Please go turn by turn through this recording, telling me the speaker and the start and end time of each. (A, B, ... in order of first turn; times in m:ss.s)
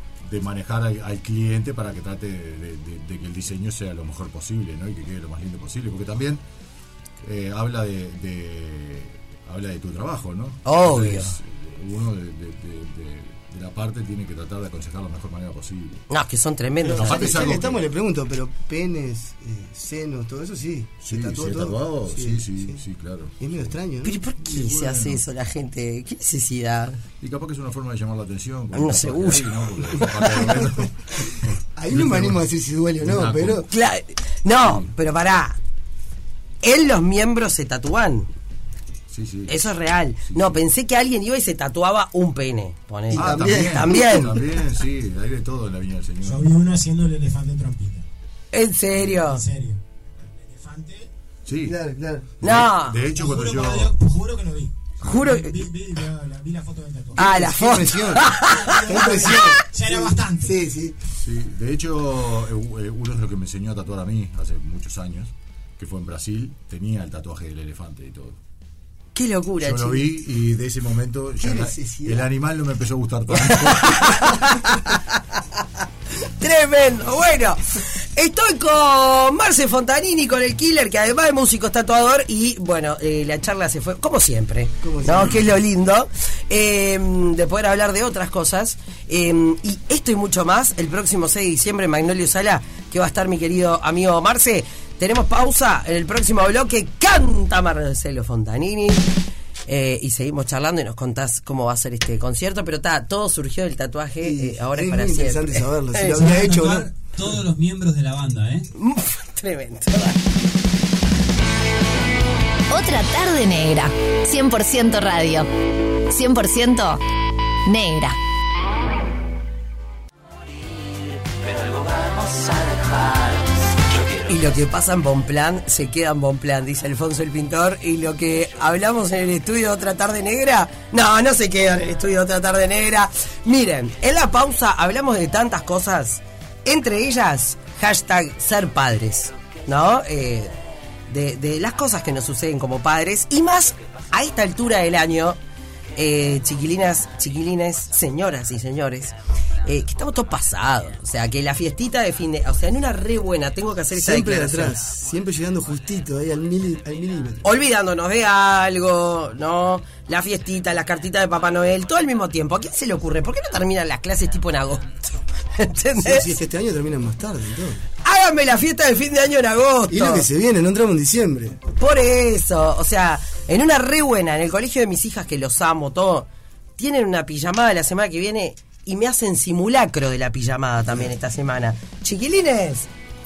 0:00.2-0:06.4 A
0:07.2-0:16.0 A
0:10.6-0:11.4 B
0:16.1-0:17.3 B
0:16.8-0:22.8 C
0:16.9-0:17.8 A
0:21.0-0:23.7 A
0:23.4-0:24.2 C
0:24.0-0:27.0 B
0:24.4-0:25.2 A
0:27.2-0:32.4 A
0:28.7-0:30.1 B
0:30.4-0:30.8 C
0:31.7-0:33.7 C
0:33.0-0:33.7 A
0:33.7-0:35.6 B
0:34.6-0:34.9 A
0:36.6-0:38.3 B
0:39.1-0:39.7 A
0:39.5-0:44.4 B
0:40.3-0:40.6 A
0:43.1-0:44.3 C
0:43.1-0:46.5 A
0:46.2-0:48.0 D
0:48.5-0:49.4 B
0:49.0-0:49.8 D
0:50.3-0:51.1 D
0:51.4-0:51.8 A
0:51.6-0:52.3 C
0:52.4-0:53.9 A
0:52.4-0:53.0 B
0:53.1-0:57.3 D
0:55.0-0:55.7 B
0:57.2-0:59.6 B
0:57.2-1:01.0 C
0:58.3-1:00.5 D
1:01.2-1:08.4 A
1:09.1-1:10.0 B
1:09.6-1:14.3 A
1:11.4-1:12.3 C
1:13.4-1:15.2 B
1:16.2-1:39.1 B
1:24.8-1:25.4 C
1:39.7-1:46.2 B
1:44.2-1:46.9 C
1:46.1-1:48.7 E
1:48.7-1:50.2 B
1:52.7-1:55.5 F
1:56.0-1:57.0 F
1:57.6-1:58.2 F
2:01.5-2:03.4 B
2:04.1-2:20.5 B
2:21.1-2:25.4 B
2:25.9-2:34.8 B
2:33.9-2:37.4 C
2:37.4-2:46.3 B
2:46.0-2:47.8 C
2:48.0-2:50.3 B
2:49.9-2:51.6 C
2:51.8-3:02.9 B